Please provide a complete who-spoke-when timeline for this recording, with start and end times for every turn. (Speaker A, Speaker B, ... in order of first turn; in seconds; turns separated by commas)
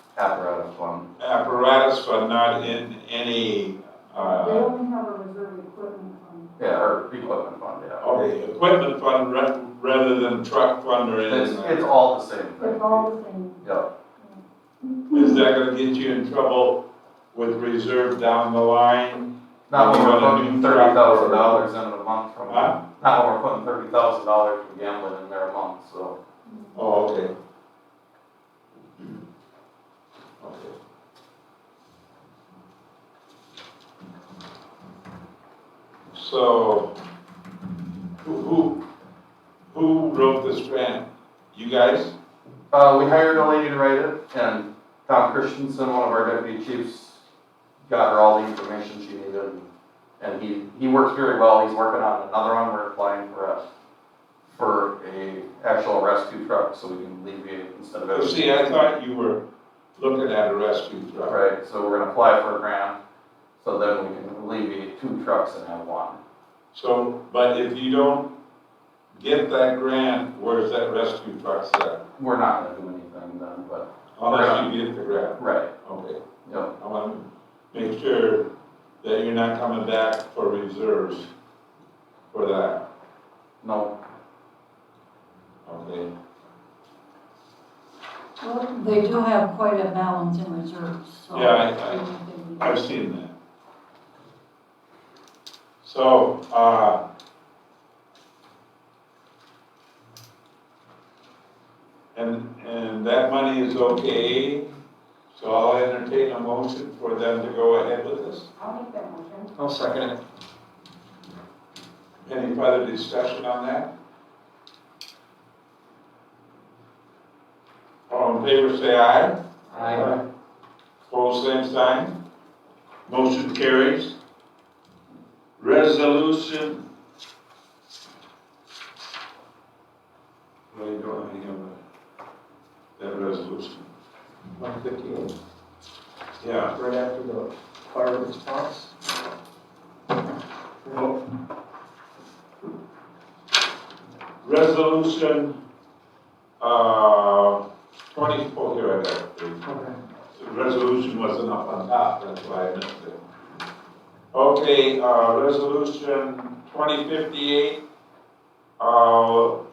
Speaker A: 0.2-1.1, Speaker B: 1.2-4.7, Speaker C: 4.1-6.5, Speaker A: 6.6-8.1, Speaker B: 8.0-11.8, Speaker A: 11.3-13.0, Speaker C: 12.6-13.6, Speaker A: 13.6-13.9, Speaker C: 14.8-15.3, Speaker B: 15.1-16.8, Speaker B: 17.3-21.7, Speaker A: 19.7-26.1, Speaker B: 22.5-22.8, Speaker B: 26.8-27.3, Speaker B: 30.4-30.7, Speaker B: 36.1-36.9, Speaker B: 38.2-38.8, Speaker B: 39.7-42.1, Speaker A: 42.7-47.2, Speaker A: 47.9-49.6, Speaker A: 50.2-53.6, Speaker A: 54.5-58.5, Speaker B: 58.1-59.4, Speaker B: 60.0-61.4, Speaker A: 61.2-63.0, Speaker A: 63.6-66.2, Speaker B: 66.7-68.3, Speaker B: 69.1-72.0, Speaker A: 72.2-74.7, Speaker B: 74.2-76.2, Speaker A: 75.3-75.7, Speaker A: 76.5-76.7, Speaker B: 76.8-78.5, Speaker B: 79.0-81.3, Speaker B: 82.3-82.8, Speaker A: 83.6-83.9, Speaker B: 85.7-86.1, Speaker C: 88.4-92.8, Speaker B: 91.3-92.0, Speaker B: 92.6-93.3, Speaker B: 95.8-97.0, Speaker B: 102.1-104.7, Speaker B: 105.3-108.5, Speaker C: 108.6-109.5, Speaker D: 109.6-110.2, Speaker B: 112.2-113.9, Speaker B: 118.1-119.4, Speaker D: 119.7-120.2, Speaker B: 121.1-122.2, Speaker B: 123.1-124.1, Speaker B: 125.6-126.8, Speaker B: 130.7-131.8, Speaker B: 133.0-133.9, Speaker D: 134.6-135.3, Speaker B: 136.4-136.8, Speaker D: 136.8-138.9, Speaker D: 140.8-141.1, Speaker B: 144.4-145.6, Speaker B: 146.6-147.6, Speaker B: 148.1-149.6, Speaker D: 149.7-149.9, Speaker B: 150.3-153.2, Speaker B: 154.3-157.8, Speaker B: 158.8-159.6